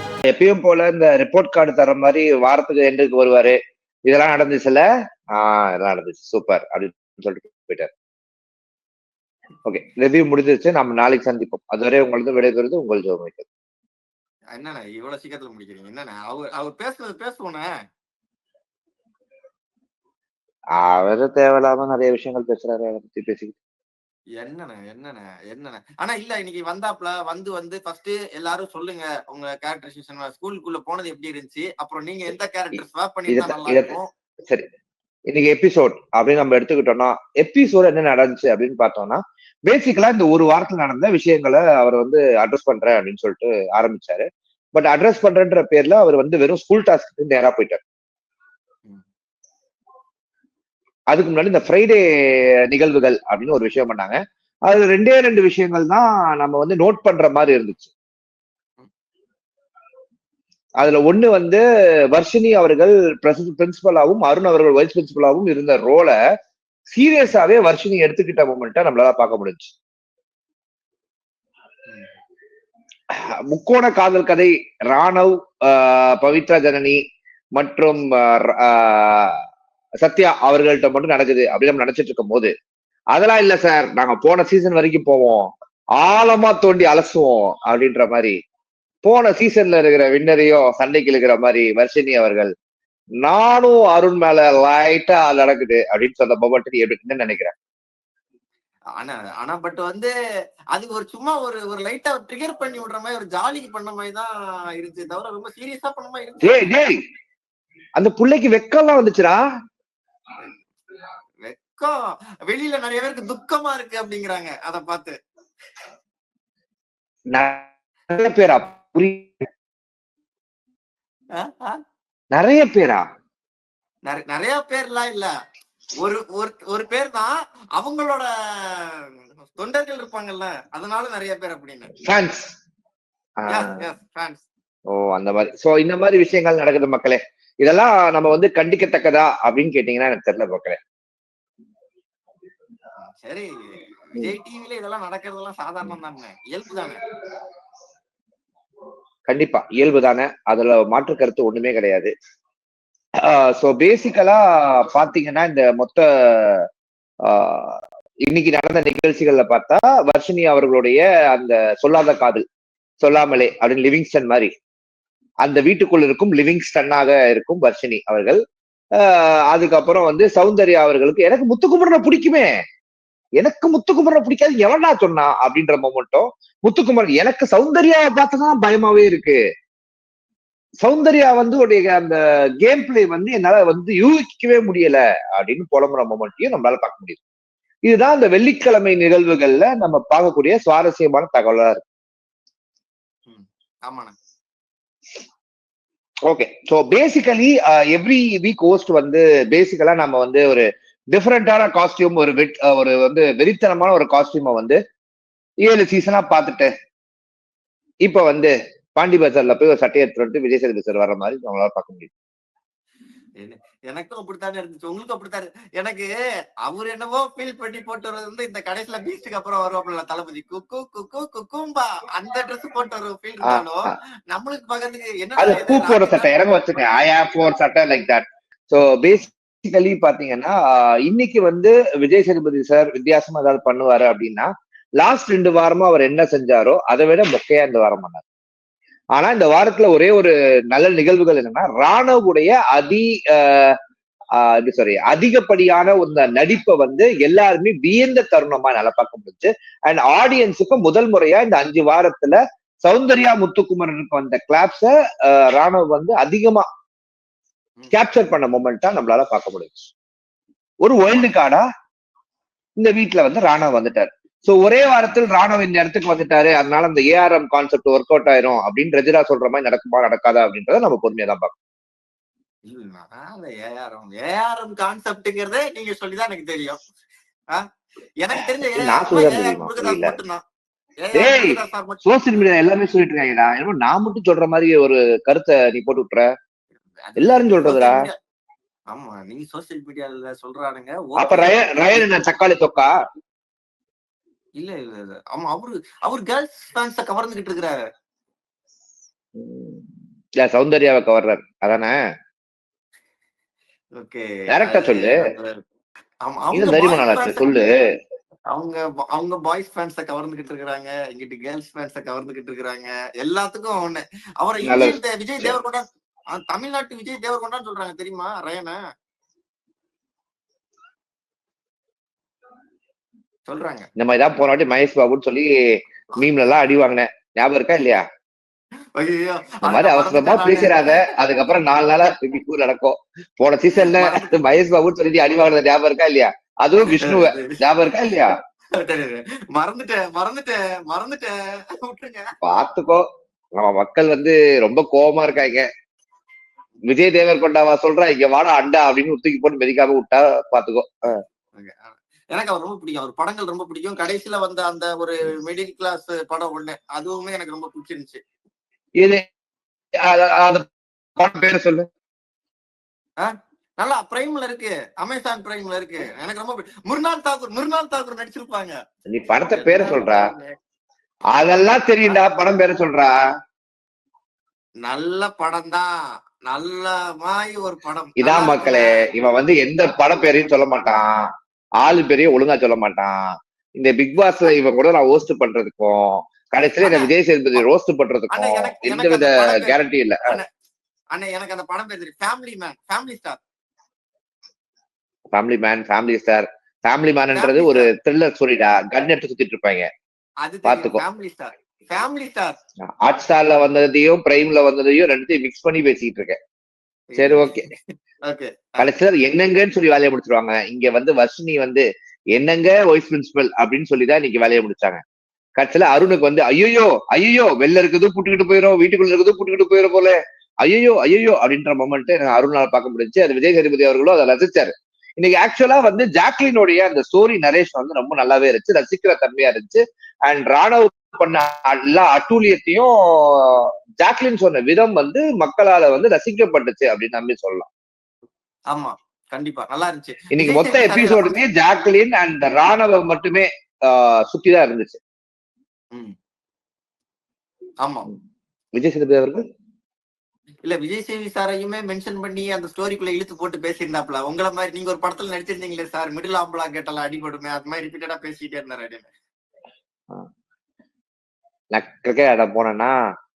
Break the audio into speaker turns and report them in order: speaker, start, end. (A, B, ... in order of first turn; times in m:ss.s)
0:00.3-0:03.6 A
0:04.1-0:04.8 A
0:05.3-0:07.9 A
0:09.6-0:13.4 A
0:14.5-0:17.7 B
0:20.8-0:23.6 A
0:24.4-0:34.1 B
0:33.3-0:33.9 A
0:35.3-0:47.8 A
0:51.1-0:52.0 A
0:52.7-0:57.9 A
1:00.8-1:06.1 A
1:06.9-1:09.7 A
1:13.1-1:17.0 A
1:17.5-1:19.4 A
1:20.0-1:22.5 A
1:23.1-1:28.3 A
1:29.0-1:32.5 A
1:33.2-1:37.5 A
1:39.0-1:40.1 B
1:40.7-1:46.7 B
1:46.4-1:47.0 A
1:48.0-1:49.4 A
1:51.4-1:51.9 B
1:52.5-1:55.1 B
1:57.3-1:59.4 A
2:01.4-2:01.8 B
2:02.3-2:03.0 A
2:04.0-2:05.3 B
2:06.0-2:11.9 B
2:12.0-2:12.5 A
2:13.4-2:13.7 A
2:13.5-2:14.4 B
2:14.9-2:20.8 A
2:23.0-2:23.5 B
2:24.1-2:27.0 B
2:29.3-2:32.1 A
2:33.2-2:36.6 A
2:37.2-2:42.4 A
2:43.0-2:44.5 A
2:45.4-2:48.4 A
2:49.0-2:52.5 A
2:53.4-2:59.4 A
3:00.8-3:07.2 A
3:07.8-3:11.8 A
3:13.3-3:14.1 B
3:16.2-3:24.8 A
3:25.6-3:26.7 A
3:28.0-3:32.1 A
3:33.4-3:36.1 B
3:36.6-3:46.4 B
3:43.4-3:43.9 A
3:45.4-3:54.5 A
3:55.0-3:58.2 A
3:59.2-4:03.7 A
4:04.4-4:16.6 A
4:17.9-4:19.9 A
4:20.8-4:21.6 A
4:22.8-4:31.5 A
4:32.6-4:36.8 B
4:38.2-4:40.4 B
4:38.7-4:40.2 A
4:41.0-4:42.0 B
4:41.1-4:46.2 A
4:47.0-4:48.1 B
4:47.2-4:48.1 A
4:48.9-4:52.0 B
4:51.2-4:52.9 A
4:54.6-4:57.8 B
4:59.4-4:59.8 A
5:00.4-5:02.0 A
5:04.0-5:05.5 B
5:04.5-5:05.2 A
5:06.2-5:07.4 B
5:06.5-5:07.7 A
5:08.5-5:18.8 B
5:14.6-5:15.6 A
5:23.5-5:23.9 B
5:24.0-5:25.5 A
5:26.1-5:28.0 A
5:28.9-5:31.0 B
5:29.6-5:38.3 A
5:33.7-5:34.4 B
5:36.9-5:37.5 B
5:38.8-5:42.2 B
5:42.4-5:43.0 A
5:43.6-5:45.7 A
5:46.9-5:51.2 A
5:51.6-5:58.2 B
5:59.0-5:59.2 A
6:00.0-6:01.8 A
6:03.2-6:08.7 B
6:09.1-6:10.2 A
6:09.4-6:10.6 B
6:11.3-6:13.2 A
6:14.8-6:15.9 B
6:16.5-6:18.9 B
6:18.2-6:21.2 A
6:21.8-6:23.2 A
6:23.8-6:30.3 A
6:26.8-6:27.1 B
6:28.3-6:29.8 B
6:31.1-6:33.4 B
6:35.3-6:39.9 A
6:37.3-6:37.9 B
6:40.4-6:42.6 B
6:40.6-6:41.0 A
6:43.0-6:46.4 A
6:47.1-6:48.9 B
6:47.2-6:47.7 A
6:48.8-6:55.0 A
6:55.6-7:17.7 A
7:18.7-7:21.4 B
7:20.3-7:25.0 A
7:27.8-7:28.1 B
7:28.8-7:29.4 A
7:30.6-7:39.1 B
7:41.7-7:42.9 A